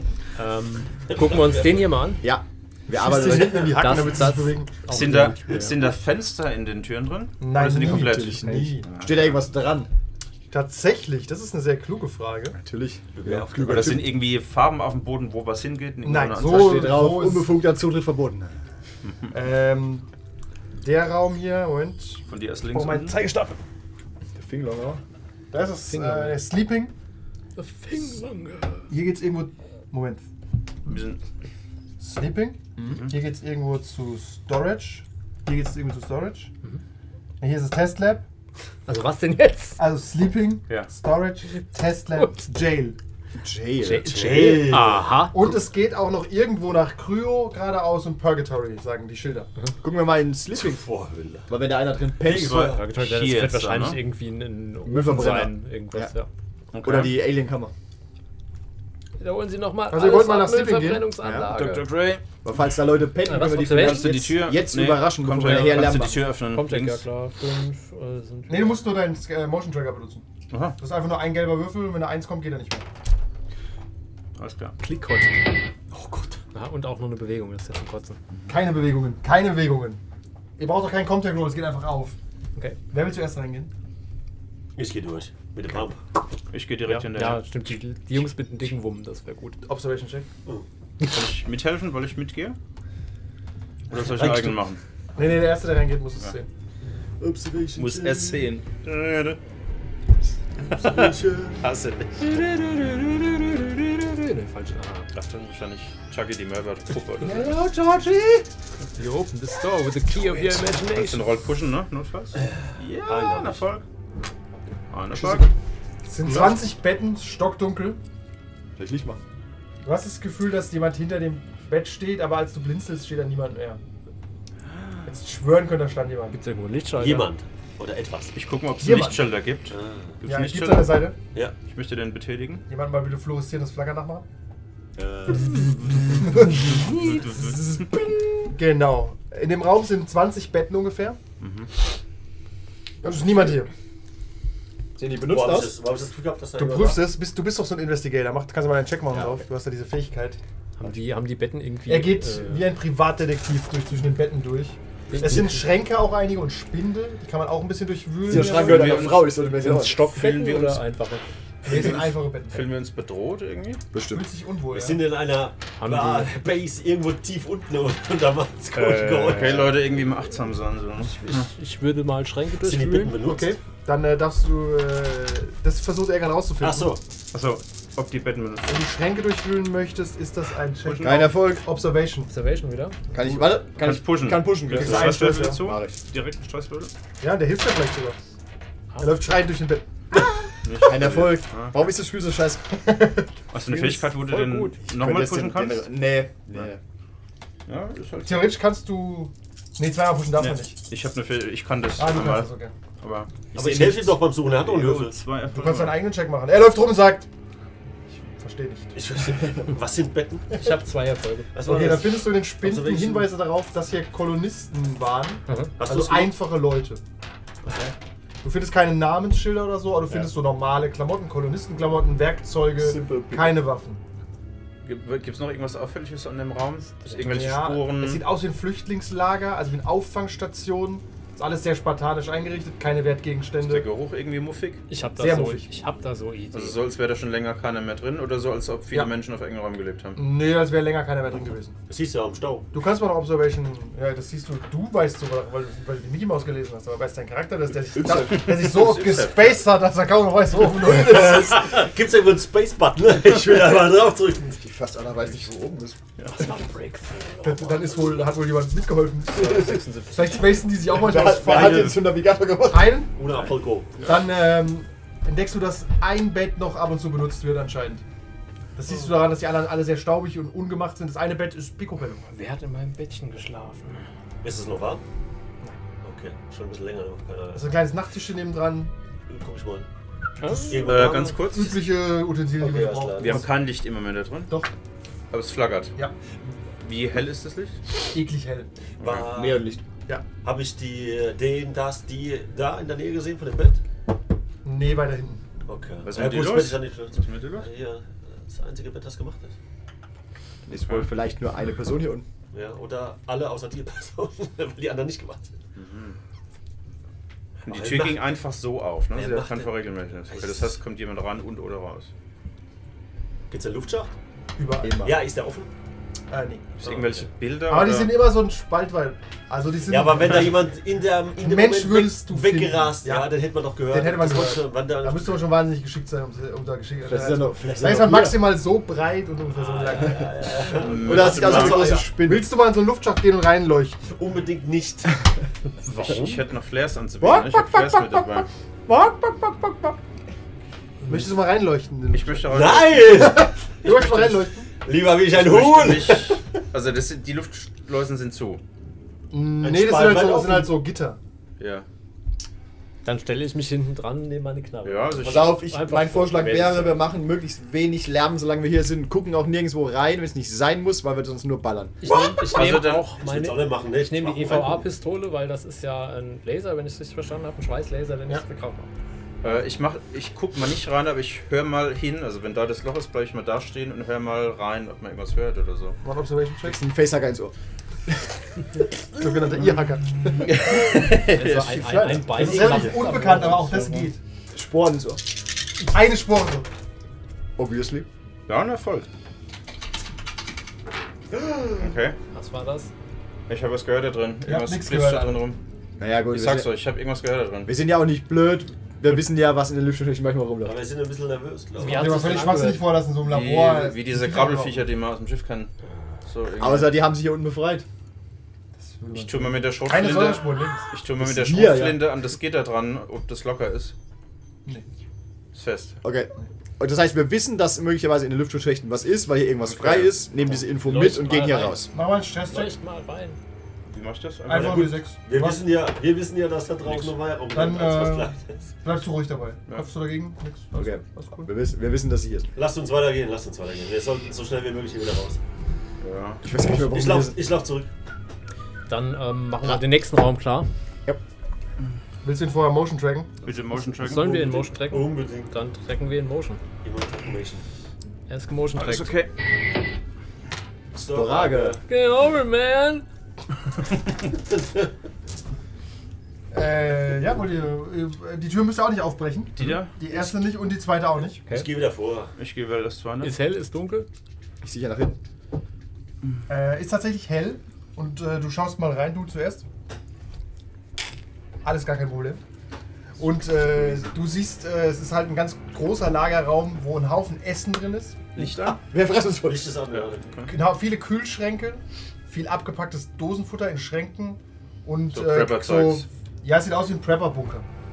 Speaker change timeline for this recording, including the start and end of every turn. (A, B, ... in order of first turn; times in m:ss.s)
0:00.4-0:02.2 A
0:01.1-0:01.8 B
0:02.2-0:03.9 C
0:02.9-0:04.7 D
0:03.5-0:05.9 A
0:04.9-0:09.4 E
0:07.4-0:08.9 D
0:07.6-0:09.9 C
0:10.5-0:12.6 D
0:12.5-0:14.1 C
0:13.1-0:14.0 B
0:13.6-0:17.0 E
0:16.0-0:17.6 D
0:16.4-0:18.6 C
0:19.0-0:19.3 E
0:19.3-0:20.0 D
0:20.7-0:23.6 D
0:22.3-0:23.2 E
0:24.4-0:25.0 C
0:25.5-0:26.9 D
0:25.9-0:26.5 A
0:27.6-0:28.9 A
0:28.9-0:30.2 D
0:30.8-0:31.2 E
0:32.0-0:36.5 D
0:32.8-0:33.2 E
0:37.4-0:38.2 D
0:38.8-0:39.8 A
0:39.8-0:43.0 D
0:43.4-0:44.6 C
0:43.8-0:45.5 A
0:44.0-0:45.2 B
0:45.3-0:49.5 D
0:49.8-0:50.8 C
0:50.5-0:51.5 B
0:51.5-0:52.7 C
0:52.2-0:52.8 B
0:52.2-0:54.0 E
0:52.7-0:56.3 A
0:54.8-0:56.1 C
0:56.7-0:57.2 E
0:56.8-0:57.7 C
0:59.2-1:01.9 A
0:59.9-1:01.0 D
1:01.2-1:01.5 C
1:01.5-1:02.2 E
1:02.4-1:06.2 C
1:03.2-1:04.2 A
1:03.6-1:07.0 E
1:05.4-1:08.9 A
1:08.5-1:10.2 D
1:10.5-1:10.8 E
1:10.8-1:12.8 D
1:14.4-1:14.8 E
1:14.8-1:15.5 A
1:15.9-1:16.4 B
1:16.5-1:18.2 A
1:18.5-1:20.0 D
1:20.6-1:22.2 D
1:22.9-1:23.7 D
1:24.8-1:26.0 B
1:26.5-1:27.4 E
1:26.8-1:29.6 A
1:29.6-1:30.3 D
1:31.0-1:32.6 E
1:33.9-1:34.8 E
1:33.9-1:34.6 B
1:35.1-1:36.5 D
1:37.2-1:38.4 B
1:37.8-1:39.4 E
1:40.7-1:43.9 E
1:40.7-1:41.6 B
1:44.0-1:45.1 A
1:45.1-1:47.5 E
1:49.0-1:51.3 A
1:50.8-1:53.8 E
1:53.0-1:53.6 B
1:54.9-1:55.5 E
1:56.0-1:58.0 D
1:56.2-1:56.6 E
1:58.8-1:59.2 C
1:59.8-2:03.8 D
2:05.0-2:06.4 D
2:06.3-2:07.3 A
2:07.0-2:08.4 B
2:08.3-2:11.1 E
2:08.8-2:09.2 D
2:09.7-2:10.2 B
2:10.2-2:11.2 D
2:11.6-2:12.6 E
2:12.7-2:14.2 D
2:16.0-2:17.8 D
2:16.5-2:17.7 E
2:18.4-2:21.2 D
2:21.4-2:21.7 E
2:23.0-2:23.7 D
2:23.0-2:23.6 C
2:25.0-2:25.8 C
2:25.3-2:27.1 B
2:26.6-2:30.4 D
2:29.1-2:29.4 C
2:30.8-2:32.7 A
2:31.9-2:39.0 D
2:35.1-2:35.6 A
2:35.3-2:35.5 B
2:38.2-2:40.0 C
2:38.3-2:41.2 A
2:38.5-2:39.4 E
2:39.9-2:40.8 E
2:41.6-2:42.7 D
2:41.6-2:43.8 E
2:43.9-2:44.2 C
2:44.1-2:45.1 D
2:44.7-2:49.9 B
2:45.8-2:46.4 A
2:48.7-2:49.6 A
2:49.2-2:51.5 E
2:51.0-2:53.2 A
2:52.6-2:53.6 B
2:53.2-2:56.9 D
2:56.6-2:57.0 B
2:57.3-2:58.9 E
2:58.7-3:02.3 D
3:00.8-3:01.3 E
3:01.0-3:01.6 C
3:02.3-3:03.0 A
3:03.1-3:06.0 C
3:03.7-3:06.9 E
3:04.7-3:05.6 D
3:07.2-3:08.2 D
3:09.0-3:10.2 D
3:10.6-3:11.8 E
3:10.8-3:12.6 C
3:12.8-3:13.3 D
3:13.5-3:15.9 E
3:14.1-3:14.8 A
3:14.9-3:16.8 C
3:17.7-3:18.5 E
3:18.2-3:20.8 D
3:20.3-3:23.9 E
3:22.0-3:22.7 D
3:23.5-3:25.2 B
3:23.5-3:24.2 C
3:24.4-3:26.0 E
3:25.4-3:27.3 D
3:28.2-3:28.9 D
3:28.9-3:30.8 B
3:30.5-3:31.5 A
3:31.5-3:33.3 B
3:31.6-3:37.0 D
3:35.5-3:35.7 A
3:35.8-3:36.4 B
3:38.4-3:44.0 D
3:42.8-3:43.6 C
3:44.8-3:48.2 E
3:47.2-3:53.9 D
3:53.6-3:54.8 E
3:54.9-3:56.8 A
3:55.2-3:55.7 D
3:56.5-4:00.2 E
4:00.2-4:01.8 D
4:01.9-4:02.7 B
4:02.7-4:11.8 D
4:07.9-4:08.7 C
4:08.2-4:09.6 E
4:10.9-4:14.6 B
4:14.5-4:16.0 C
4:16.3-4:18.2 A
4:17.4-4:22.0 D
4:19.3-4:20.1 E
4:20.9-4:23.0 C
4:21.4-4:22.0 E
4:22.7-4:23.1 D
4:23.1-4:24.0 B
4:23.3-4:24.1 E
4:24.0-4:28.0 D
4:28.8-4:32.2 D
4:32.3-4:34.1 A
4:34.4-4:35.0 B
4:36.0-4:37.8 B
4:37.5-4:38.9 D
4:39.3-4:39.8 B
4:40.4-4:40.9 A
4:40.4-4:43.5 D
4:40.6-4:41.5 B
4:40.8-4:41.8 E
4:42.6-4:43.4 B
4:43.2-4:44.5 E
4:45.3-4:45.9 E
4:46.8-4:47.8 E
4:48.1-4:48.7 D
4:49.0-4:49.3 E
4:49.0-4:49.7 B
4:49.2-4:49.8 C
4:50.4-4:53.8 B
4:54.6-4:55.4 D
4:55.6-4:59.5 B
4:56.0-4:57.7 E
5:00.6-5:02.2 C
5:00.7-5:01.1 E
5:02.5-5:05.5 B
5:05.8-5:06.2 E
5:07.6-5:08.2 B
5:07.6-5:12.1 E
5:09.1-5:10.8 B
5:13.5-5:14.1 B
5:14.6-5:15.1 D
5:14.8-5:15.2 C
5:15.0-5:15.7 B
5:16.3-5:17.0 D
5:16.8-5:18.2 E
5:17.7-5:20.7 D
5:19.9-5:25.4 B
5:21.3-5:34.1 D
5:27.0-5:28.5 C
5:29.5-5:32.1 B
5:30.7-5:31.9 E
5:31.0-5:32.5 C
5:34.1-5:35.2 B
5:35.9-5:36.4 B
5:35.9-5:38.5 E
5:37.2-5:38.2 D
5:38.9-5:39.9 D
5:41.0-5:44.7 D
5:42.1-5:44.4 E
5:42.5-5:44.1 B
5:44.7-5:46.4 B
5:45.2-5:48.6 E
5:49.3-5:51.2 D
5:49.6-5:50.7 B
5:51.6-5:51.8 E
5:53.0-5:57.0 A
5:54.8-5:55.6 E
5:55.2-6:02.0 C
6:02.0-6:08.9 A
6:02.0-6:04.8 B
6:02.4-6:03.1 E
6:09.4-6:16.0 E
6:16.0-6:16.8 D
6:16.6-6:17.5 C
6:19.2-6:20.9 D
6:20.4-6:22.8 E
6:21.2-6:24.0 A
6:21.8-6:23.3 C
6:22.1-6:24.2 D
6:24.5-6:25.2 C
6:25.8-6:26.7 D
6:27.6-6:28.1 C
6:28.5-6:29.1 E
6:31.8-6:32.2 E
6:32.3-6:32.9 A
6:33.5-6:35.6 E
6:34.4-6:35.4 D
6:36.0-6:36.7 C
6:36.3-6:37.7 E
6:37.6-6:40.8 C
6:40.6-6:42.6 B
6:41.8-6:42.9 A
6:41.9-6:44.8 D
6:43.2-6:45.7 E
6:46.2-6:47.0 E
6:46.6-6:47.8 C
6:48.8-6:50.9 D
6:49.1-6:53.9 E
6:51.2-6:52.0 C
6:55.5-6:56.0 E
6:56.0-7:01.9 C
6:59.6-7:00.3 E
7:00.4-7:03.4 A
7:01.9-7:02.7 D
7:03.8-7:05.0 E
7:04.5-7:05.7 D
7:04.5-7:08.7 B
7:06.8-7:07.1 E
7:07.5-7:11.5 D
7:10.8-7:12.5 C
7:12.5-7:15.4 B
7:16.0-7:16.4 E
7:16.4-7:17.4 C
7:16.7-7:17.9 B
7:18.9-7:20.7 A
7:22.2-7:23.4 D
7:23.4-7:24.6 E
7:24.0-7:26.6 A
7:24.4-7:25.5 B
7:26.8-7:27.6 B
7:28.3-7:29.2 A
7:28.8-7:29.3 E
7:30.9-7:31.8 B
7:31.1-7:31.8 C
7:31.9-7:33.0 A
7:36.5-7:41.4 D
7:39.6-7:40.0 E
7:41.5-7:42.3 B
7:42.4-7:43.4 E
7:43.2-7:44.1 A
7:44.6-7:45.2 C
7:46.5-7:49.6 D
7:51.6-7:52.4 D
7:53.2-7:58.3 D
7:58.3-7:58.8 E
7:58.6-7:59.7 C
7:59.4-8:00.4 B
7:59.9-8:00.5 E
8:00.4-8:07.6 D
8:05.1-8:06.0 E